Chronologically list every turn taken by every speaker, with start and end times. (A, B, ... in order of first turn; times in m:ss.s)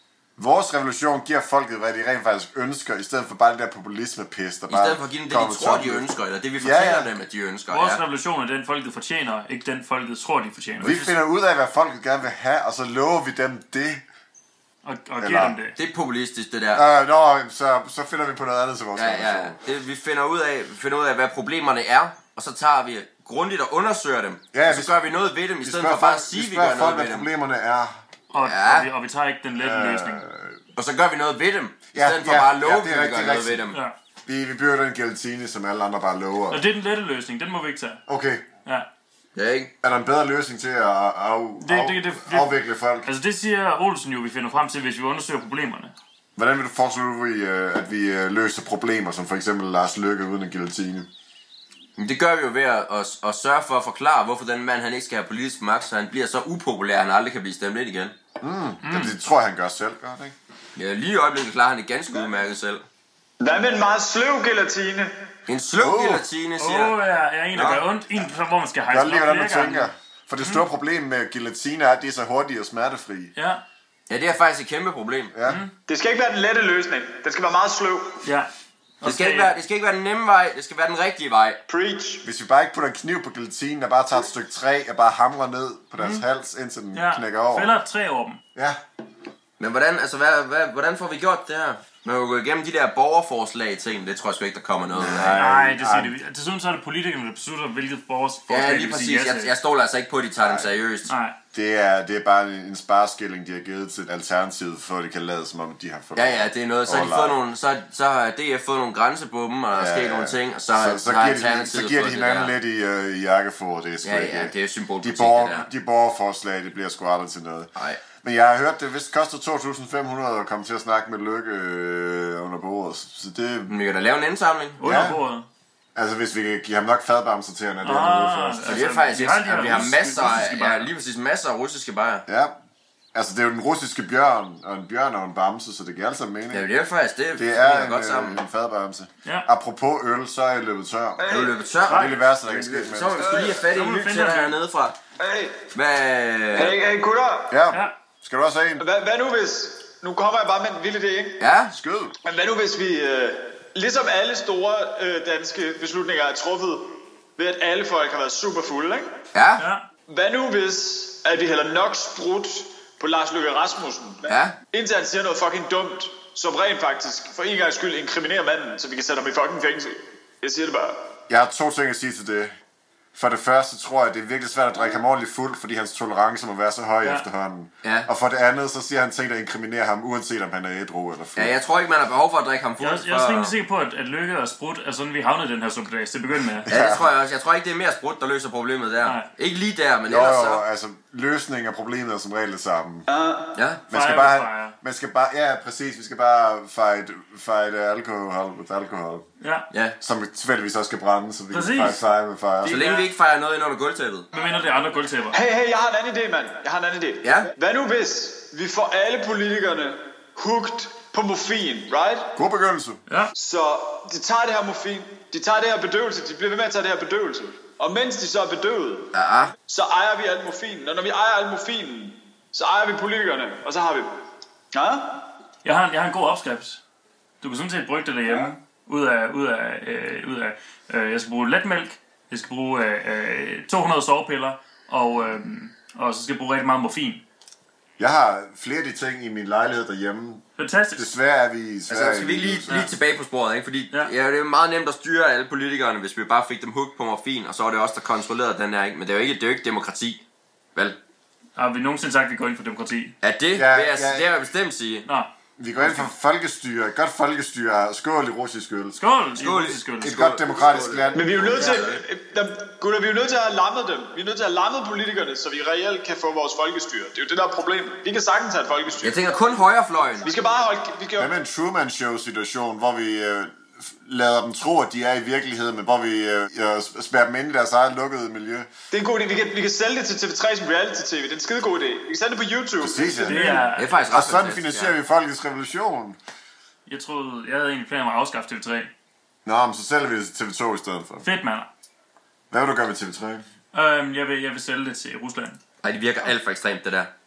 0:00.4-0:06.1 A
0:04.7-0:08.0 B
0:06.6-0:07.1 A
0:07.7-0:11.1 C
0:10.8-0:14.0 A
0:14.8-0:15.8 C
0:15.2-0:15.6 A
0:15.8-0:16.9 B
0:16.7-0:19.6 A
0:19.0-0:27.3 B
0:24.5-0:25.0 A
0:25.6-0:28.0 A
0:28.3-0:30.2 C
0:28.4-0:28.9 B
0:29.6-0:30.6 A
0:30.8-0:33.8 B
0:31.9-0:33.6 A
0:34.3-0:36.6 A
0:36.5-0:38.0 C
0:38.1-0:38.5 A
0:39.4-0:39.7 B
0:39.8-0:43.1 A
0:41.6-0:42.5 C
0:43.0-0:45.9 C
0:46.4-0:51.1 A
0:52.0-0:58.2 B
0:58.4-1:00.4 A
0:58.8-0:59.1 C
1:00.8-1:02.9 B
1:03.4-1:05.1 D
1:05.5-1:07.0 B
1:05.8-1:06.2 A
1:06.6-1:09.9 C
1:07.5-1:07.8 B
1:08.9-1:13.3 A
1:13.4-1:13.6 C
1:14.1-1:15.3 B
1:15.3-1:15.6 A
1:15.4-1:15.7 C
1:15.9-1:18.2 D
1:18.2-1:19.5 C
1:19.0-1:21.6 B
1:21.7-1:22.2 D
1:22.2-1:27.7 A
1:26.0-1:26.2 C
1:26.9-1:28.4 C
1:28.6-1:28.8 A
1:29.6-1:35.4 B
1:34.9-1:36.1 A
1:35.4-1:39.5 C
1:38.5-1:41.1 B
1:40.4-1:40.7 A
1:41.1-1:41.4 C
1:41.5-1:47.4 A
1:46.2-1:52.5 B
1:49.7-2:03.7 A
1:54.0-1:55.7 B
1:57.8-1:58.0 B
2:03.7-2:04.8 B
2:04.8-2:05.5 C
2:04.8-2:05.2 A
2:06.0-2:08.9 A
2:07.8-2:10.9 C
2:08.7-2:12.2 B
2:12.3-2:12.6 A
2:13.1-2:16.7 A
2:16.5-2:18.4 B
2:17.4-2:23.5 A
2:21.2-2:21.5 D
2:21.3-2:25.0 B
2:21.9-2:22.2 C
2:23.2-2:23.6 D
2:23.6-2:24.6 C
2:25.2-2:25.6 D
2:25.7-2:26.8 B
2:26.5-2:27.5 D
2:27.5-2:28.8 A
2:28.8-2:31.5 D
2:31.4-2:31.8 B
2:31.7-2:32.2 A
2:32.2-2:39.1 D
2:39.3-2:39.6 B
2:39.6-2:39.9 C
2:40.1-2:51.0 D
2:44.3-2:44.6 B
2:51.3-2:52.5 A
2:53.1-3:01.5 A
2:57.8-2:58.1 B
3:01.4-3:03.5 B
3:02.8-3:06.7 C
3:06.6-3:07.1 A
3:06.7-3:10.6 B
3:10.1-3:13.1 A
3:13.1-3:13.6 D
3:13.6-3:13.8 B
3:13.9-3:19.2 A
3:13.9-3:14.8 C
3:19.4-3:19.7 C
3:19.7-3:20.0 B
3:20.0-3:22.8 A
3:21.5-3:22.0 C
3:22.6-3:23.0 C
3:22.6-3:24.3 B
3:24.3-3:25.4 C
3:25.3-3:32.4 D
3:27.2-3:27.5 B
3:32.4-3:33.0 A
3:33.4-3:44.2 D
3:39.1-3:39.5 B
3:44.7-3:45.3 D
3:45.6-3:46.8 C
3:47.4-3:57.2 C
3:58.0-4:02.9 A
4:00.6-4:01.1 C
4:01.9-4:10.2 B
4:11.6-4:13.2 C
4:13.2-4:15.1 B
4:13.6-4:14.3 A
4:15.1-4:16.1 C
4:15.6-4:19.0 A
4:19.0-4:20.2 C
4:19.4-4:22.0 B
4:20.0-4:21.9 A
4:21.1-4:29.2 D
4:29.0-4:30.3 B
4:30.2-4:31.3 D
4:31.2-4:38.7 A
4:38.9-4:43.7 D
4:42.8-4:46.2 A
4:43.2-4:44.0 C
4:43.8-4:45.0 B
4:46.9-4:48.9 C
4:49.5-4:51.2 A
4:51.2-4:51.7 C
4:52.5-4:53.4 A
4:53.7-4:55.6 C
4:55.8-4:57.1 B